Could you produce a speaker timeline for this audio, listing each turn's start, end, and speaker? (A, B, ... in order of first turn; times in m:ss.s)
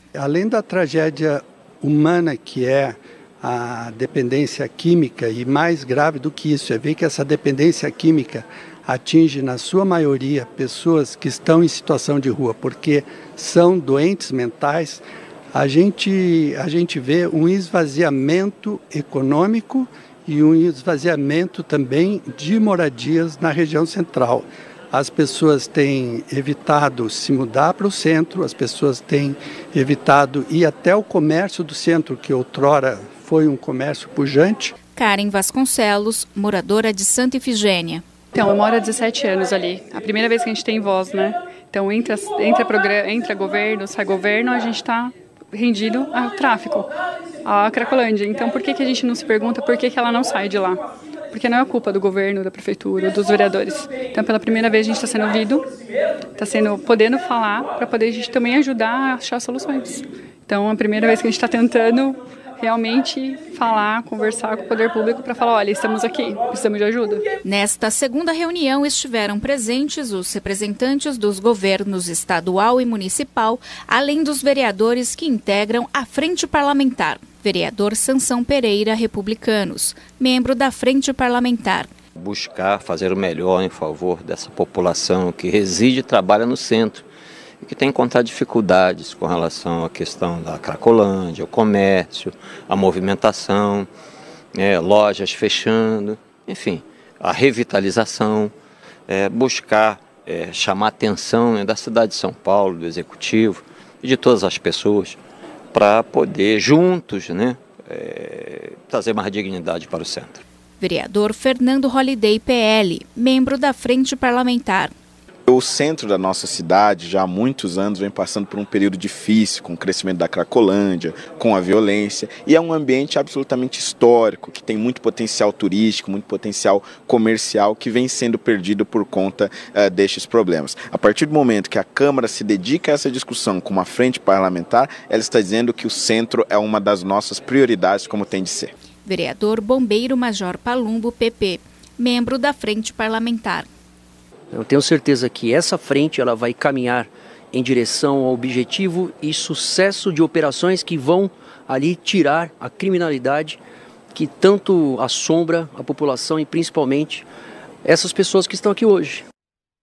0:00.2-0:15.0 A
0:15.5-0:34.7 A
0:35.0-0:38.0 B
0:38.3-0:46.9 C
0:47.4-0:50.8 C
0:51.3-0:55.7 C
0:56.4-1:07.2 C
1:07.4-1:21.9 B
1:22.2-1:27.1 D
1:27.6-1:33.9 D
1:34.6-1:38.5 D
1:39.1-1:45.2 D
1:45.7-1:50.4 D
1:50.8-1:54.9 B
1:55.5-2:18.7 E
2:19.0-2:23.7 B
2:24.5-2:33.6 F
2:34.1-2:37.2 F
2:37.8-2:39.2 F